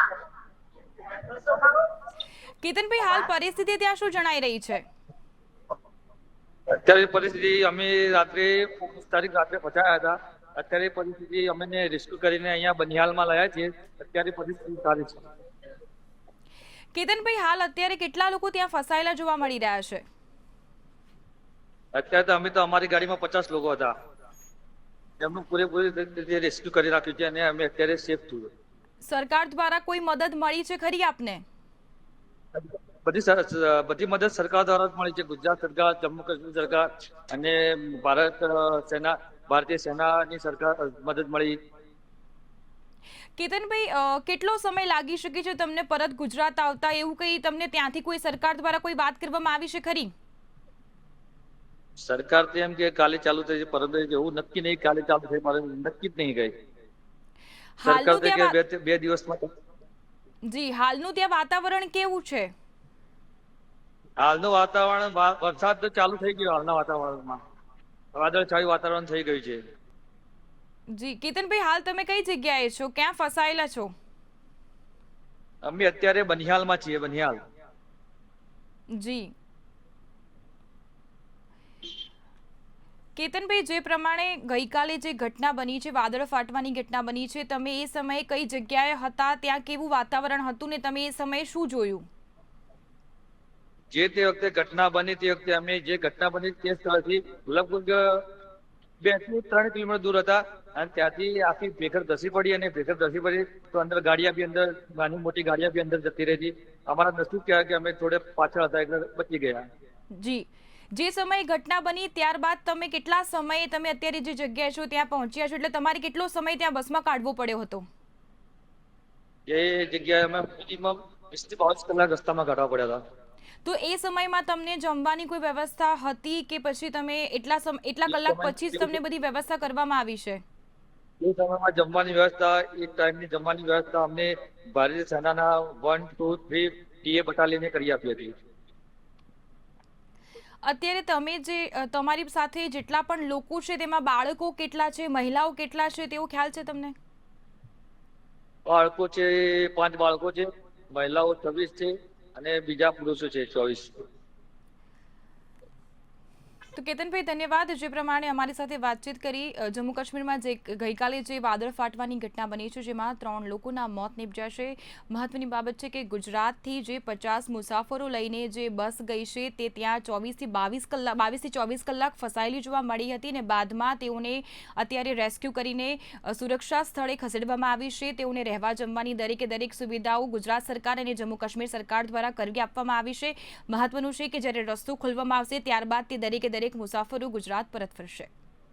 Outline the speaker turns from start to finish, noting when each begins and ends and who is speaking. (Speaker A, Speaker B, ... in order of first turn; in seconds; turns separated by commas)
Speaker A: 2.6-4.8, Speaker B: 6.7-15.2, Speaker A: 16.9-20.0, Speaker B: 21.9-23.9, Speaker B: 25.2-28.5, Speaker A: 29.0-31.4, Speaker B: 32.5-41.6, Speaker A: 43.4-50.1, Speaker B: 52.0-56.5, Speaker A: 57.8-58.5, Speaker B: 57.8-59.5, Speaker A: 60.5-62.5, Speaker B: 64.2-67.4, Speaker B: 68.1-69.6, Speaker A: 70.9-73.9, Speaker B: 75.6-77.4, Speaker A: 78.9-79.3, Speaker A: 83.2-92.0, Speaker B: 93.9-98.2, Speaker B: 99.0-109.6, Speaker A: 110.2-117.8, Speaker B: 119.5-123.0, Speaker A: 123.6-130.4, Speaker B: 128.1-129.0, Speaker B: 131.2-138.3, Speaker A: 140.6-146.9, Speaker B: 148.7-154.0, Speaker A: 156.7-188.3